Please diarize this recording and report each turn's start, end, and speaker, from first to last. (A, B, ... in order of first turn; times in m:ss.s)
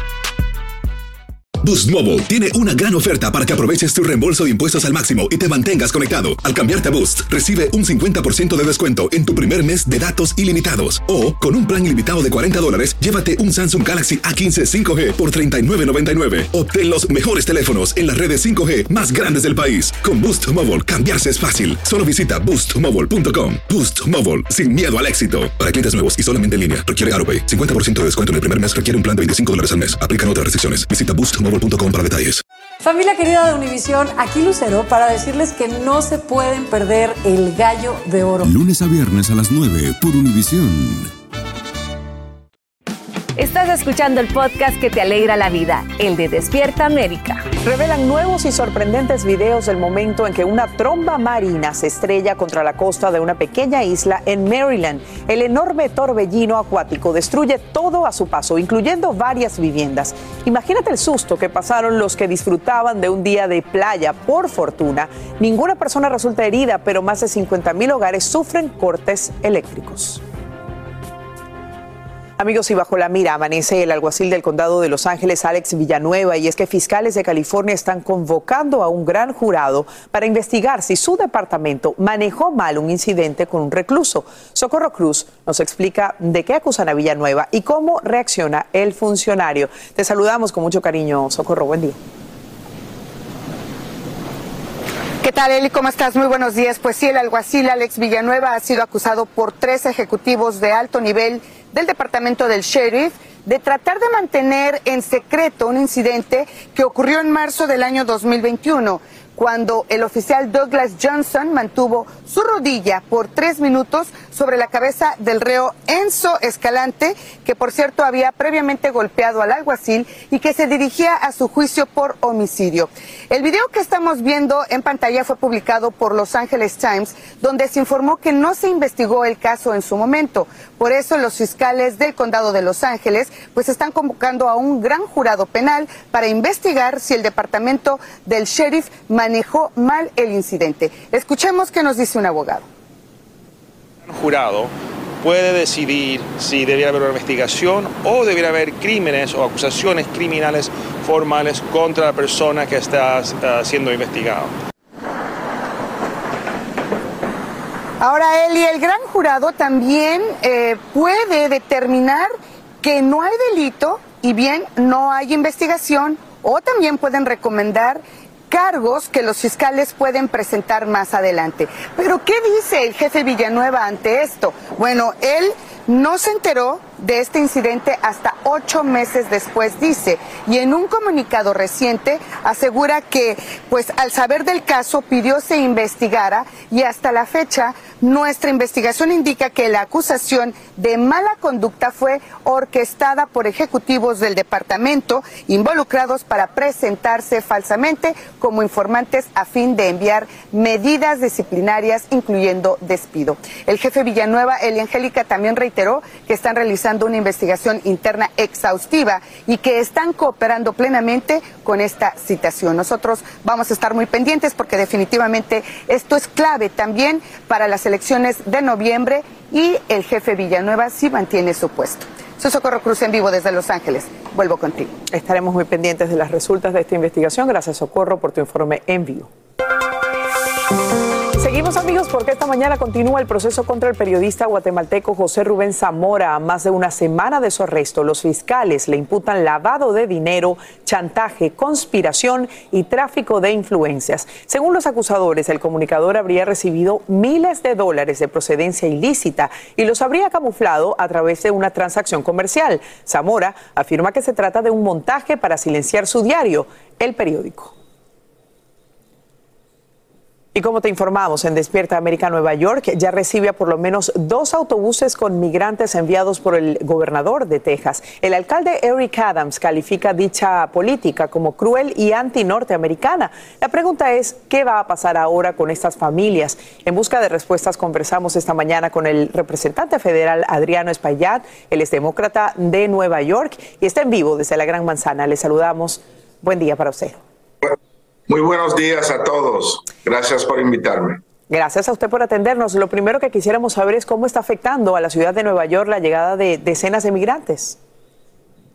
0:01.6-0:32.4 A
0:32.9-0:37.1 B
0:37.7-0:38.5 B
0:38.5-0:41.0 C
0:43.4-0:47.4 D
0:47.6-1:10.2 E
1:12.4-1:32.0 E
1:35.2-2:22.6 F
2:24.1-2:34.5 G
2:38.0-2:42.3 F
2:42.8-3:44.9 F
3:45.1-3:49.3 E
3:51.4-4:17.7 E
4:20.6-4:47.2 E
4:48.3-4:51.2 H
4:51.5-4:57.8 E